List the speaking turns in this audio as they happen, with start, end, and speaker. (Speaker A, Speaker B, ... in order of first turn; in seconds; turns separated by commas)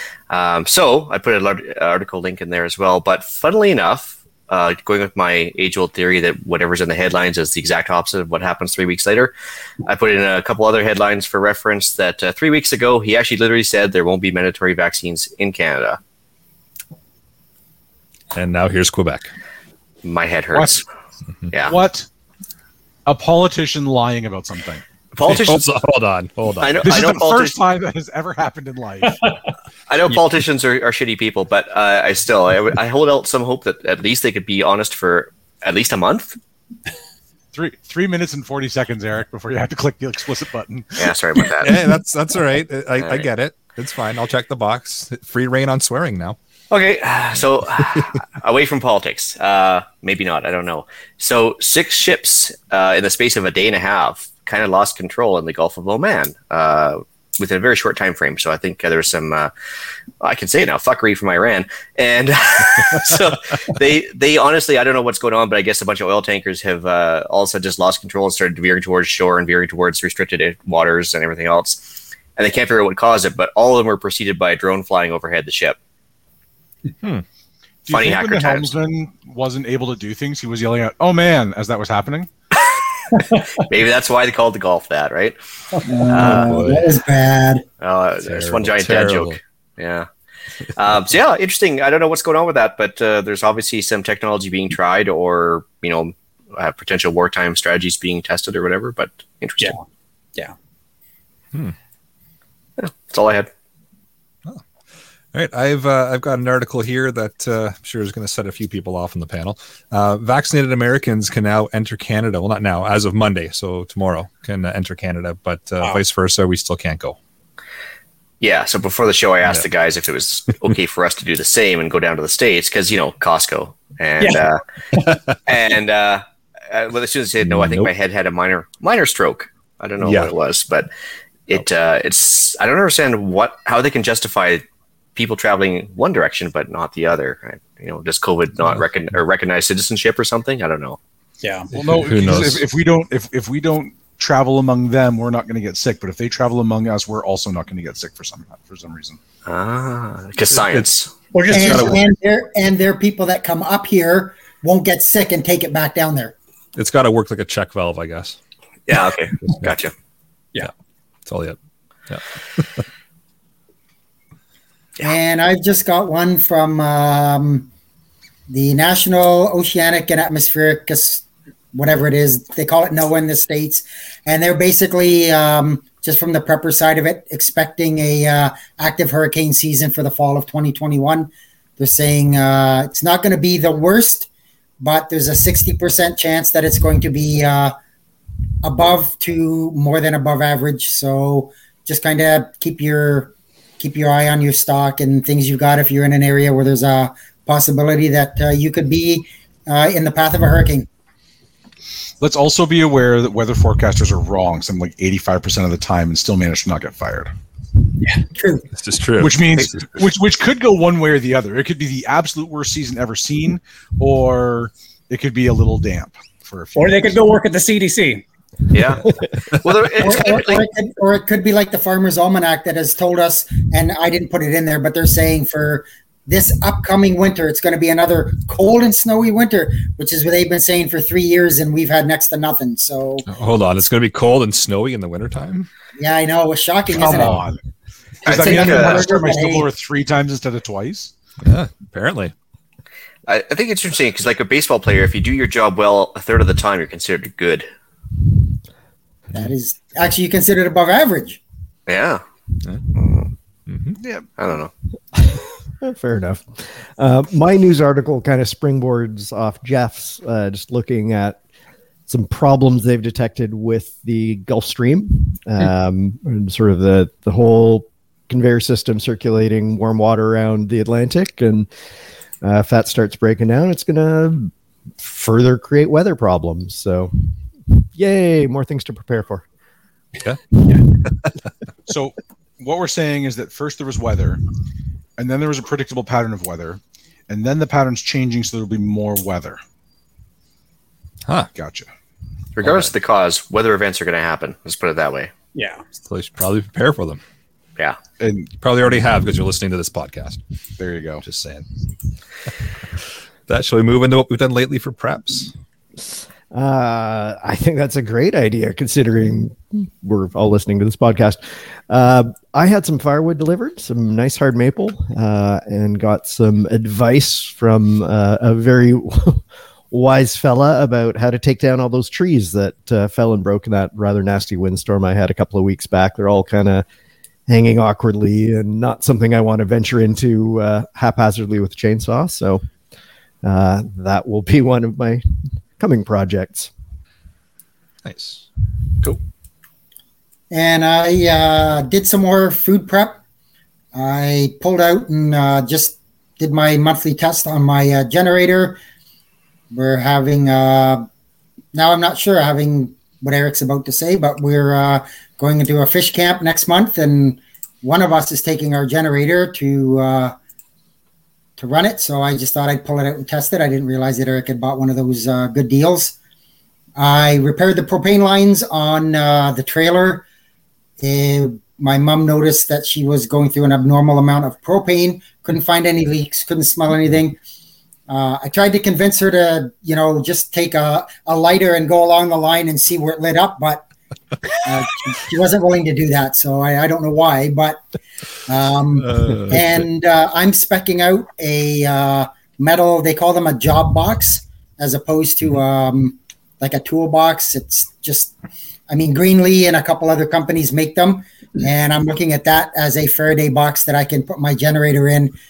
Speaker A: 0.3-9.3, Speaker A: 9.8-16.0, Speaker B: 18.3-19.3, Speaker A: 20.0-20.8, Speaker C: 20.5-20.8, Speaker A: 21.5-21.8, Speaker C: 21.6-22.1, Speaker C: 23.1-24.8, Speaker A: 25.1-25.8, Speaker B: 25.2-26.9, Speaker A: 26.6-27.6, Speaker C: 26.8-29.2, Speaker A: 29.9-36.4, Speaker C: 37.5-41.1, Speaker A: 41.0-41.8, Speaker B: 41.6-46.4, Speaker A: 43.0-43.3, Speaker A: 46.7-59.5, Speaker A: 60.2-75.8, Speaker C: 77.8-82.3, Speaker A: 77.9-78.7, Speaker A: 83.6-85.4, Speaker D: 85.9-87.6, Speaker A: 86.1-86.7, Speaker B: 86.1-86.8, Speaker A: 87.8-90.1, Speaker B: 88.2-89.4, Speaker A: 90.7-99.8, Speaker A: 102.8-103.5, Speaker B: 105.3-117.2, Speaker A: 118.4-124.6, Speaker A: 125.5-130.9, Speaker B: 127.5-127.9, Speaker B: 130.0-130.3, Speaker A: 131.5-134.6, Speaker A: 135.2-141.0, Speaker E: 141.4-141.7, Speaker C: 141.7-149.2, Speaker B: 141.8-142.6, Speaker A: 149.4-151.1, Speaker B: 150.6-150.8, Speaker E: 151.3-152.0, Speaker B: 151.5-152.0, Speaker D: 151.5-156.3, Speaker B: 156.7-158.4, Speaker A: 158.9-159.9, Speaker B: 161.2-161.6, Speaker B: 162.1-162.8, Speaker D: 165.0-167.7, Speaker D: 168.5-184.3, Speaker D: 184.8-187.7, Speaker D: 188.6-200.9, Speaker C: 202.2-207.3, Speaker D: 208.3-208.7, Speaker B: 208.8-209.4, Speaker C: 209.2-217.2, Speaker E: 216.7-218.2, Speaker A: 218.7-220.7, Speaker D: 219.9-233.2, Speaker B: 233.3-235.7, Speaker D: 236.0-237.4, Speaker C: 236.9-237.6, Speaker D: 238.2-239.7, Speaker A: 238.2-239.1, Speaker C: 238.2-241.1, Speaker B: 241.4-242.3, Speaker A: 243.3-247.7, Speaker D: 249.3-251.4, Speaker A: 251.9-252.2, Speaker A: 252.9-253.3, Speaker B: 253.7-253.9, Speaker C: 254.0-254.2, Speaker A: 254.4-254.7, Speaker F: 255.1-261.4, Speaker F: 262.1-271.7, Speaker F: 272.4-279.4, Speaker C: 281.9-284.4, Speaker C: 285.2-289.6, Speaker C: 291.5-291.9, Speaker A: 292.6-295.3, Speaker B: 292.6-292.9, Speaker E: 295.5-295.8, Speaker B: 296.0-297.2, Speaker C: 298.2-298.5, Speaker B: 298.6-300.4, Speaker C: 300.8-301.2, Speaker B: 301.2-301.6, Speaker B: 303.5-305.5, Speaker F: 306.5-326.9, Speaker F: 327.5-332.6, Speaker F: 333.4-336.7, Speaker B: 338.0-338.4, Speaker D: 340.5-343.2, Speaker D: 343.9-348.8, Speaker D: 349.7-351.1, Speaker D: 351.7-360.3, Speaker D: 361.6-366.1, Speaker D: 367.0-370.2, Speaker D: 371.0-377.4, Speaker D: 378.1-383.8, Speaker D: 384.5-387.8, Speaker D: 388.4-398.3, Speaker B: 389.1-389.7, Speaker D: 398.9-405.3